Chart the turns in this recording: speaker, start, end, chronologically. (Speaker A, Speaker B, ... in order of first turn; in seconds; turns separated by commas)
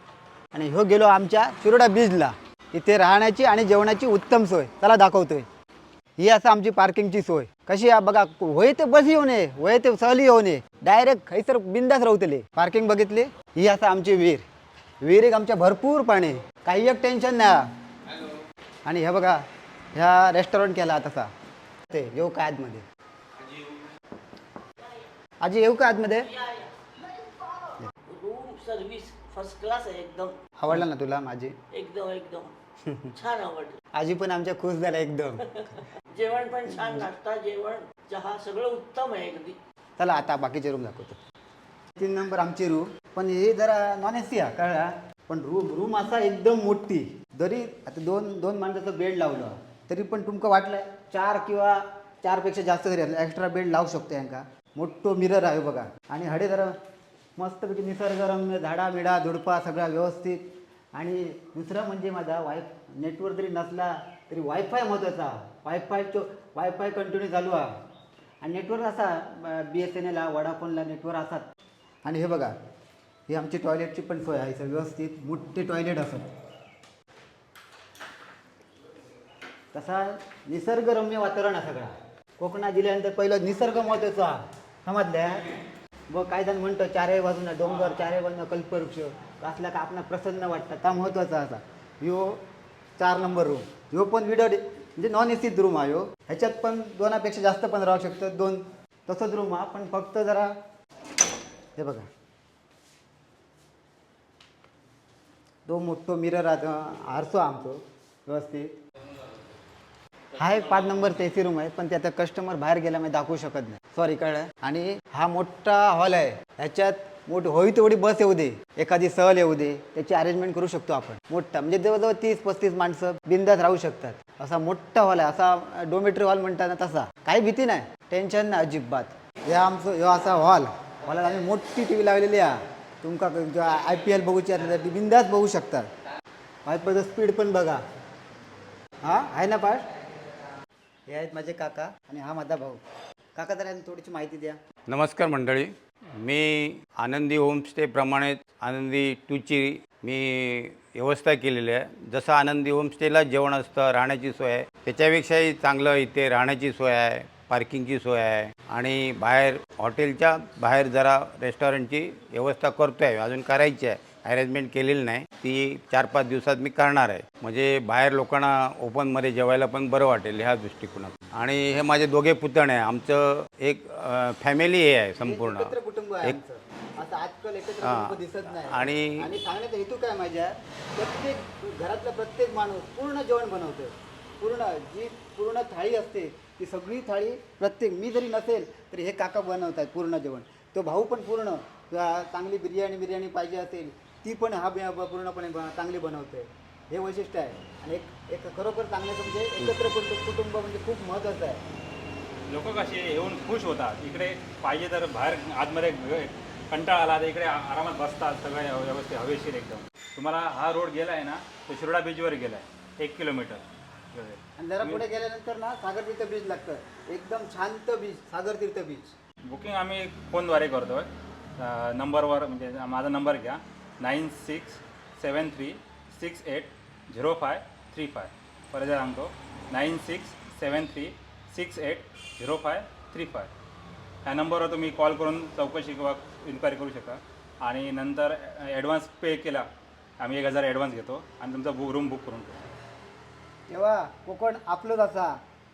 Speaker A: 0.5-5.5, Speaker A: 6.2-14.4, Speaker A: 15.0-17.7, Speaker A: 18.9-19.4, Speaker A: 19.9-21.3, Speaker A: 21.9-22.9, Speaker A: 25.4-26.3, Speaker B: 26.3-26.7, Speaker B: 27.4-30.4, Speaker A: 30.6-31.6, Speaker B: 31.7-32.5, Speaker B: 33.1-33.8, Speaker A: 34.0-35.9, Speaker B: 36.1-39.6, Speaker A: 40.0-41.2, Speaker A: 42.0-56.8, Speaker A: 57.4-60.4, Speaker A: 60.9-67.7, Speaker A: 68.4-71.5, Speaker A: 72.0-72.5, Speaker A: 73.3-76.3, Speaker A: 79.7-85.5, Speaker A: 86.1-92.4, Speaker A: 93.0-100.5, Speaker A: 101.8-102.1, Speaker A: 105.7-108.7, Speaker A: 110.4-135.9, Speaker A: 136.7-137.8, Speaker A: 139.0-139.9, Speaker A: 141.1-142.8, Speaker A: 143.4-144.6, Speaker C: 144.9-176.4, Speaker A: 175.2-201.6, Speaker C: 177.8-179.4, Speaker D: 202.5-215.0, Speaker A: 214.6-219.1, Speaker D: 219.4-233.5, Speaker D: 234.2-239.7, Speaker D: 240.2-242.6, Speaker A: 243.7-245.3